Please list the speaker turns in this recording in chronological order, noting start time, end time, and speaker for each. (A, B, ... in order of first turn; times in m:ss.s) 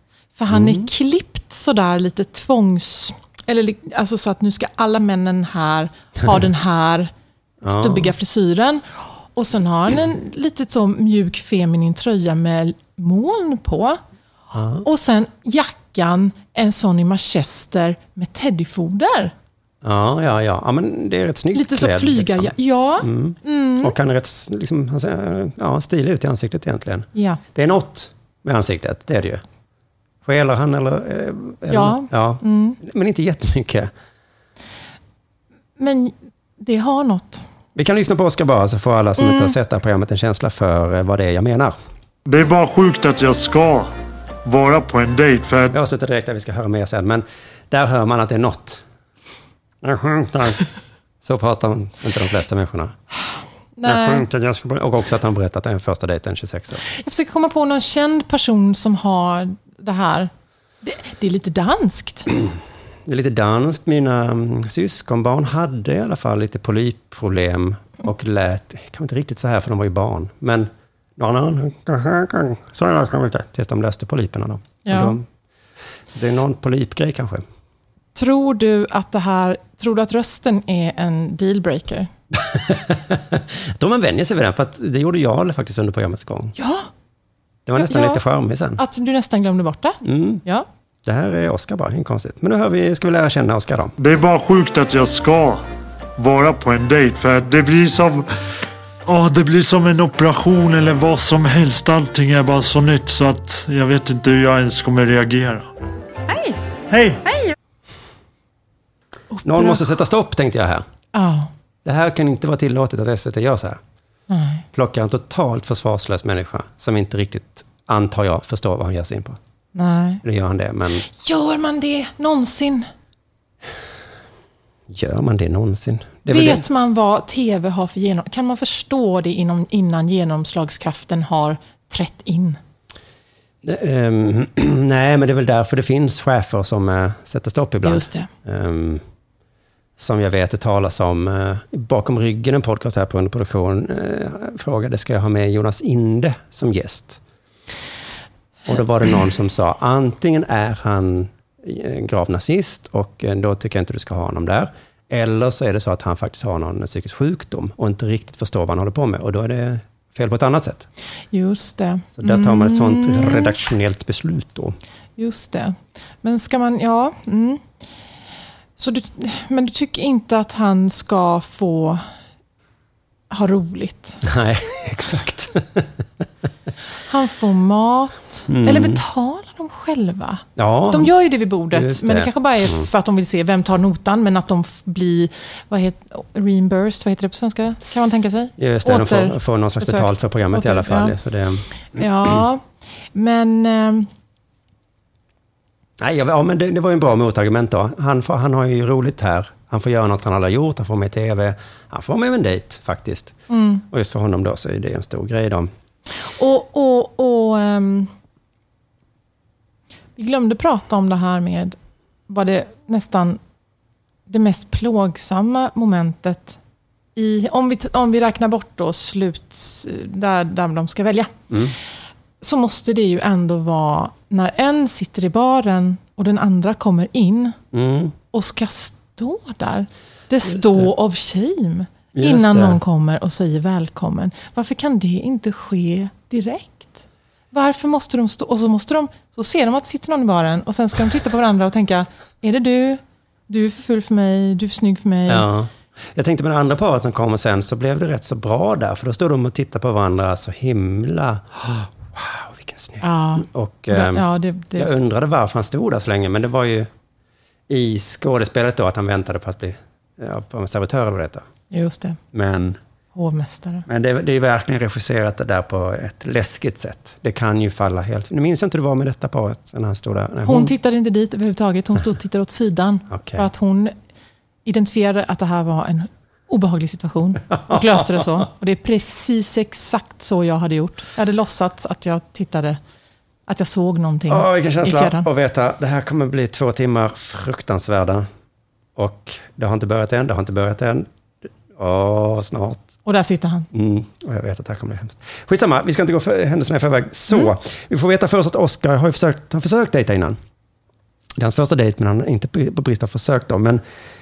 0:00.4-0:14.0 A
0:00.5-0:00.9 B
0:07.6-0:08.1 B
0:14.5-0:14.8 B
0:14.8-0:19.3 A
0:19.8-0:29.4 B
0:21.5-0:23.9 A
0:27.1-0:27.4 A
0:30.2-0:33.9 B
0:31.7-0:32.8 A
0:35.8-0:37.4 A
0:37.7-0:41.7 B
0:39.2-0:39.5 A
0:42.3-0:43.9 C
0:44.4-0:45.7 C
0:45.7-0:48.8 B
0:49.8-0:50.6 B
0:51.2-0:52.9 B
0:53.8-0:54.2 A
0:53.8-0:56.8 B
0:56.9-1:00.3 A
1:00.8-1:02.3 A
1:03.0-1:15.2 B
1:14.8-1:15.2 A
1:16.1-1:17.4 B
1:18.1-1:22.1 A
1:22.4-1:26.5 B
1:26.6-1:26.9 A
1:27.6-1:28.8 B
1:27.8-1:28.2 A
1:28.8-1:30.6 A
1:30.0-1:30.4 B
1:31.0-1:33.9 B
1:34.0-1:35.6 C
1:36.2-1:38.2 C
1:39.0-1:45.7 C
1:46.9-1:47.4 C
1:49.3-1:49.8 A
1:49.4-1:50.8 B
1:51.1-1:51.5 A
1:51.8-1:53.8 B
1:54.3-1:54.6 A
1:54.7-1:59.4 B
1:59.7-2:00.2 A
2:00.2-2:01.0 B
2:01.0-2:02.9 A
2:04.9-2:06.6 B
2:06.3-2:12.6 A
2:13.6-2:19.0 B
2:17.8-2:18.3 A
2:20.0-2:27.2 B
2:28.6-2:40.9 B
2:41.3-2:43.5 A
2:42.2-2:44.8 B
2:45.2-2:47.6 A
2:48.8-2:52.0 A
2:53.3-2:54.2 A
2:54.2-2:55.9 B
2:57.0-3:11.2 A
2:58.5-2:59.0 B
3:00.6-3:01.1 B
3:01.7-3:02.9 B
3:08.6-3:12.0 B
3:11.9-3:14.1 A
3:16.0-3:25.7 B
3:23.5-3:23.8 A
3:26.2-3:28.1 A
3:30.2-3:31.8 A
3:32.3-3:33.4 A
3:34.3-3:36.6 A
3:37.2-3:41.3 A
3:41.5-3:41.8 B
3:42.4-3:47.6 A
3:47.7-3:48.1 B
3:48.3-4:05.5 A
3:50.5-3:50.9 B
3:52.1-3:52.8 B
4:05.3-4:16.9 B
4:13.0-4:15.0 A
4:17.7-4:21.4 B
4:21.7-4:22.2 A
4:22.3-4:22.8 B
4:23.1-4:23.8 A
4:23.9-4:30.7 B
4:30.4-4:33.9 A
4:33.1-4:33.5 B
4:34.6-4:42.8 A
4:37.6-4:38.4 B
4:43.5-4:45.3 A
4:44.3-4:48.2 B
4:49.0-4:51.0 B
4:51.7-4:52.9 B
4:53.0-4:53.7 A
4:53.7-5:00.4 B
5:01.4-5:03.8 B